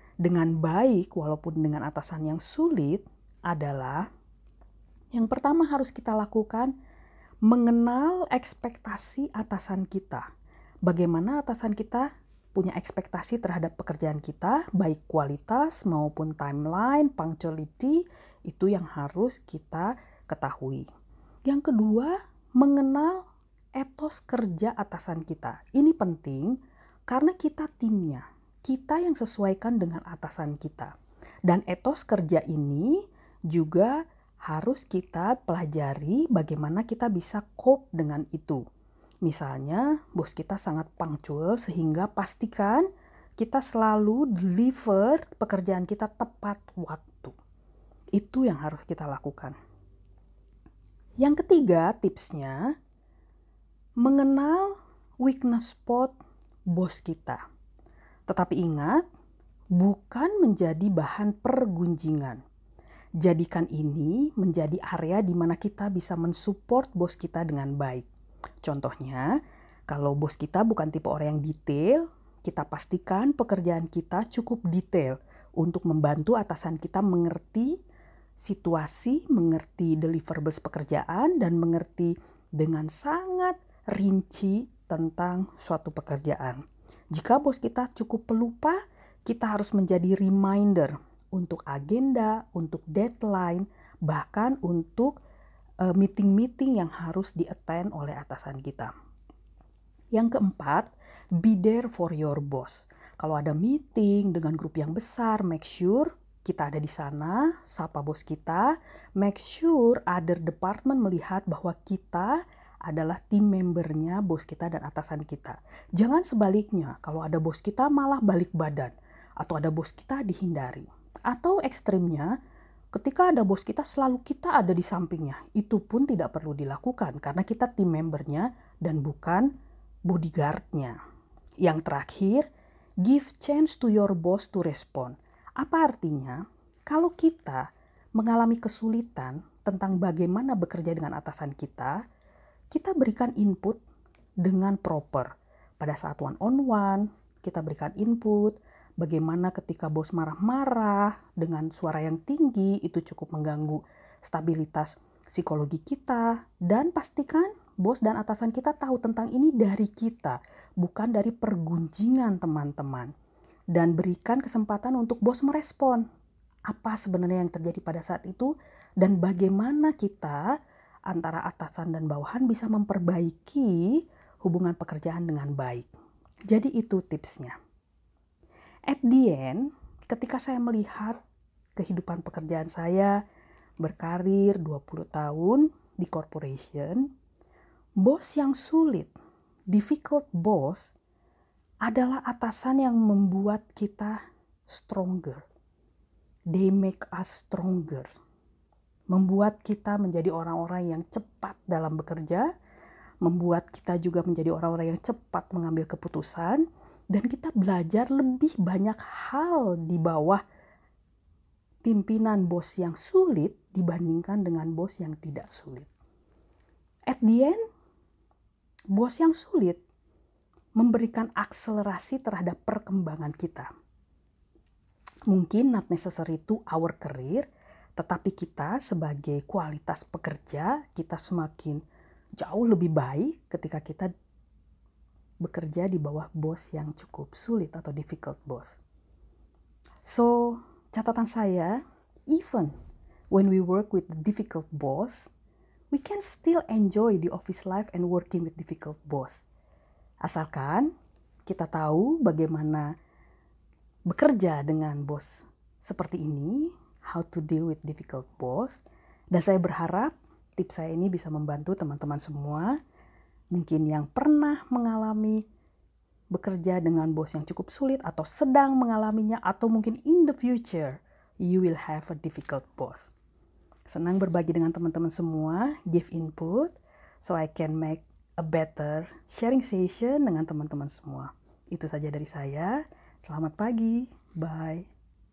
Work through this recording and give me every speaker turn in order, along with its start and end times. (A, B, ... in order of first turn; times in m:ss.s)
0:00.2-0:04.1 A
0:05.1-0:06.7 A
0:07.4-0:10.2 A
0:10.8-0:20.9 A
0:21.4-0:23.2 A
0:23.8-0:30.9 A
0:31.4-0:38.6 A
0:39.2-0:42.9 A
0:43.4-0:47.3 A
0:48.1-0:49.6 A
0:51.2-0:52.7 A
0:54.0-0:56.1 A
0:56.7-0:57.4 A
0:58.3-0:59.0 A
0:59.7-1:02.4 A
1:03.2-1:08.1 A
1:08.6-1:09.4 A
1:09.9-1:17.8 A
1:18.4-1:35.2 A
1:35.8-1:38.9 A
1:40.1-2:02.3 A
2:02.9-2:09.5 A
2:10.1-2:11.0 A
2:11.6-2:12.5 A
2:13.0-2:22.0 A
2:22.7-2:23.8 A
2:24.4-2:43.1 A
2:43.7-2:46.0 A
2:46.7-2:50.5 A
2:51.1-2:55.9 A
2:56.5-2:57.5 A
2:58.9-3:01.2 A
3:01.8-3:03.2 A
3:03.8-3:07.1 A
3:08.0-3:09.1 A
3:09.7-3:10.9 A
3:11.8-3:15.4 A
3:16.5-3:18.1 A
3:19.1-3:22.5 A
3:23.2-3:30.4 A
3:31.8-3:35.9 A
3:37.1-3:37.6 A
3:38.9-3:39.8 A
3:40.8-3:43.7 A
3:45.3-3:51.8 A
3:52.4-3:54.1 A
3:55.4-3:58.8 A
4:00.0-4:02.7 A
4:03.3-4:05.3 A
4:05.9-4:09.4 A
4:10.2-4:10.9 A
4:11.4-4:12.9 A
4:14.1-4:22.8 A
4:23.5-4:25.4 A
4:26.3-4:33.1 A
4:33.9-4:44.9 A